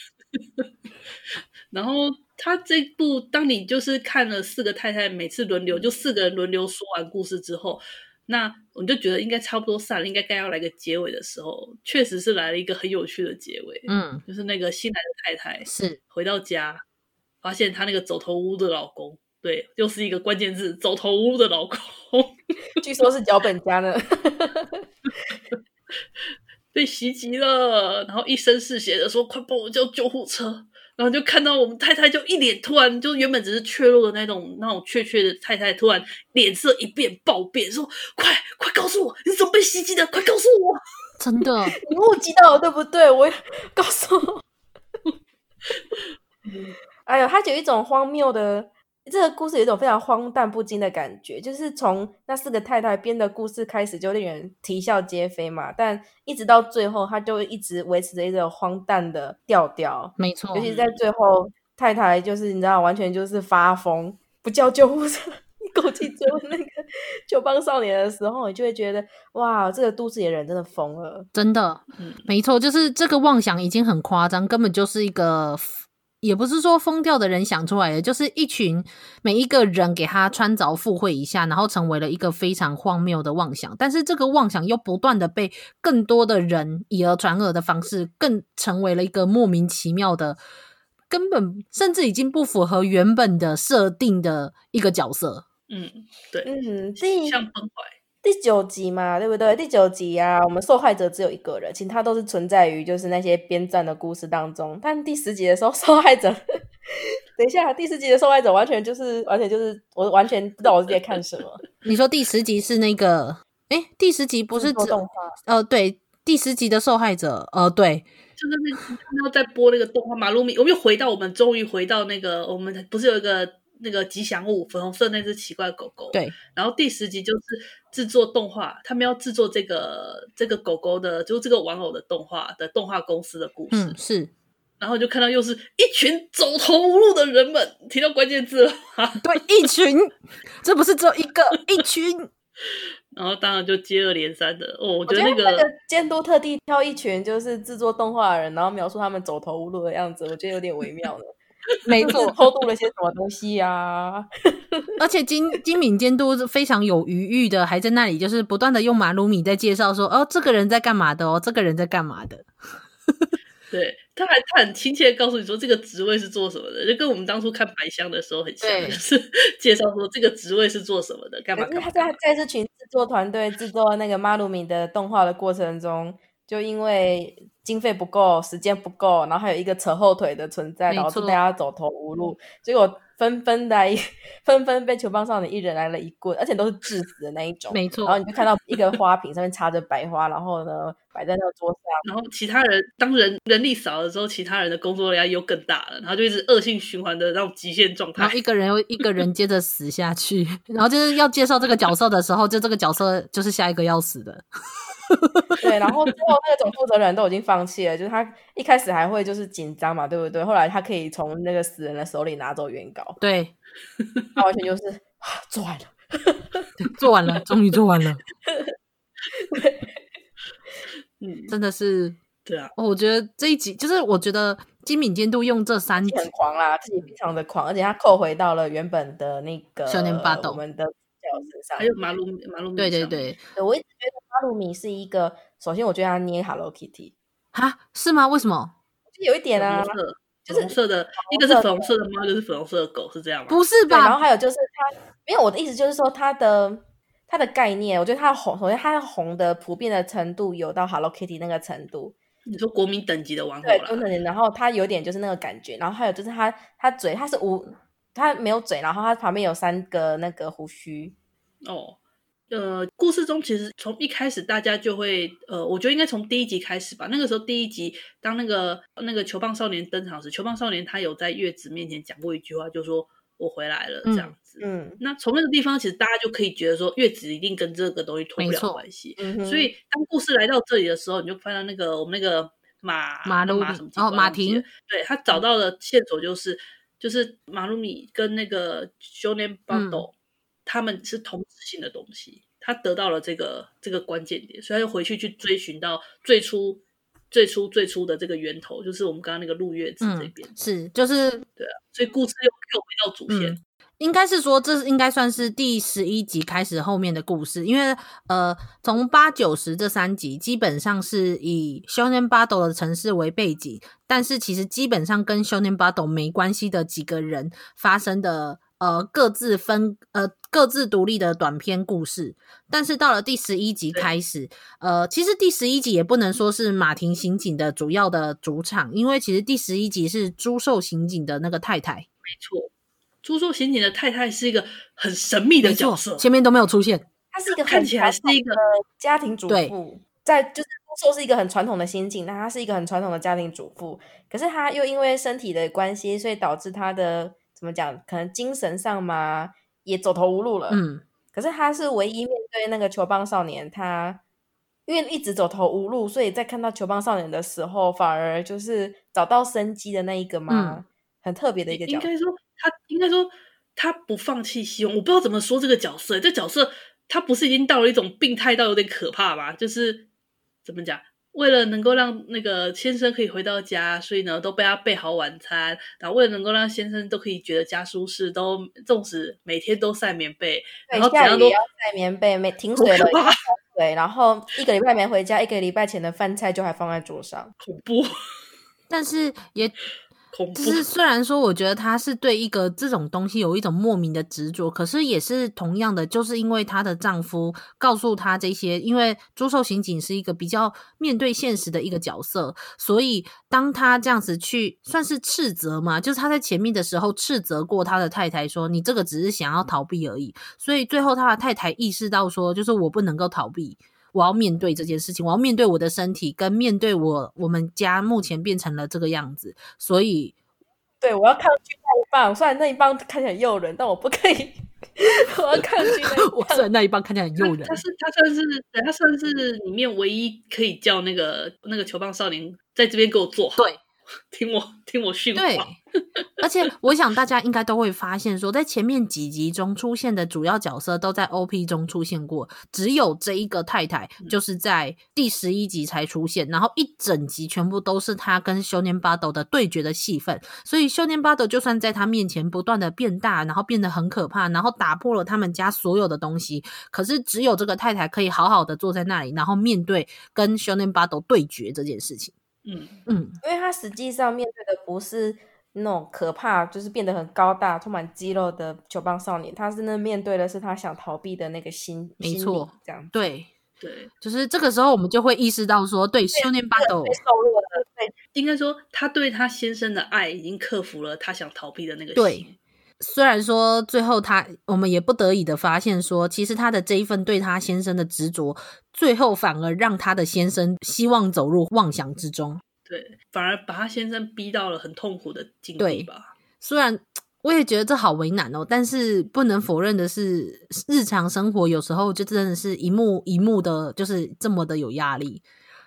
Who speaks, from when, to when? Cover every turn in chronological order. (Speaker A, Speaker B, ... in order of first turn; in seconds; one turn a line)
Speaker A: 1.7-16.8
Speaker B: 13.9-14.2
Speaker B: 15.7-16.0
Speaker A: 17.4-22.4
Speaker C: 22.8-24.9
Speaker A: 26.7-40.8
Speaker B: 41.2-41.8
Speaker C: 41.8-44.4
Speaker A: 45.9-46.8
Speaker C: 47.1-71.3
Speaker B: 60.2-60.7
Speaker A: 60.6-61.0
Speaker B: 71.3-90.4
Speaker A: 72.0-72.3
Speaker B: 91.1-95.5
Speaker A: 95.7-98.0
Speaker C: 96.5-97.4
Speaker C: 98.2-111.6
Speaker B: 111.8-118.1
Speaker C: 114.5-115.4
Speaker A: 118.4-134.0
Speaker B: 133.7-134.3
Speaker A: 134.8-139.2
Speaker B: 139.2-142.3
Speaker A: 143.1-145.7
Speaker C: 145.1-151.3
Speaker B: 151.9-152.4
Speaker C: 152.0-154.9
Speaker B: 155.0-162.5
Speaker A: 163.7-172.2
Speaker B: 168.6-169.0
Speaker C: 171.6-192.0
Speaker B: 180.9-181.4
Speaker B: 187.7-188.2
Speaker A: 192.0-198.4
Speaker B: 198.2-204.4
Speaker B: 205.1-205.4
Speaker C: 205.6-213.2
Speaker B: 213.2-213.5
Speaker C: 214.4-216.7
Speaker B: 216.8-218.2
Speaker C: 219.3-219.9
Speaker A: 221.2-221.5
Speaker B: 221.5-222.2
Speaker A: 222.5-222.7
Speaker B: 222.8-226.3
Speaker C: 226.0-231.9
Speaker B: 229.9-230.6
Speaker A: 231.8-233.3
Speaker B: 232.8-233.4
Speaker C: 233.6-237.1
Speaker B: 237.5-238.7
Speaker C: 239.1-240.0
Speaker A: 239.6-243.6
Speaker C: 240.5-241.9
Speaker B: 243.5-244.2
Speaker C: 243.9-252.2
Speaker A: 252.5-254.1
Speaker C: 253.6-261.1
Speaker A: 261.6-262.0
Speaker A: 262.5-290.1
Speaker B: 274.1-274.3
Speaker C: 274.6-275.0
Speaker B: 278.4-278.8
Speaker C: 279.2-279.7
Speaker B: 283.2-284.6
Speaker B: 289.7-290.1
Speaker A: 290.7-300.5
Speaker B: 300.0-301.4
Speaker A: 301.6-303.6
Speaker B: 303.3-332.1
Speaker A: 332.2-332.7
Speaker A: 333.2-336.2
Speaker B: 335.6-337.1
Speaker C: 337.3-350.8
Speaker A: 337.6-338.6
Speaker B: 339.5-339.8
Speaker B: 350.7-351.0
Speaker C: 351.3-354.2
Speaker C: 354.9-362.1
Speaker B: 360.5-360.8
Speaker A: 361.7-370.1
Speaker A: 370.6-381.6
Speaker C: 380.9-387.5
Speaker A: 382.8-383.4
Speaker A: 387.6-388.1
Speaker B: 388.9-389.8
Speaker A: 390.3-390.8
Speaker B: 390.6-420.3
Speaker C: 421.0-426.6
Speaker B: 426.0-427.8
Speaker A: 427.4-433.7
Speaker A: 434.3-435.8
Speaker B: 435.4-435.8
Speaker B: 436.4-462.3
Speaker A: 462.6-463.0
Speaker B: 463.1-463.4
Speaker C: 463.4-473.1
Speaker B: 472.2-473.5
Speaker A: 473.8-474.1
Speaker B: 474.2-477.2
Speaker C: 476.4-478.1
Speaker A: 478.4-482.6
Speaker B: 482.2-482.5
Speaker B: 483.0-492.6
Speaker A: 492.9-496.3
Speaker B: 495.8-496.1
Speaker B: 496.6-505.4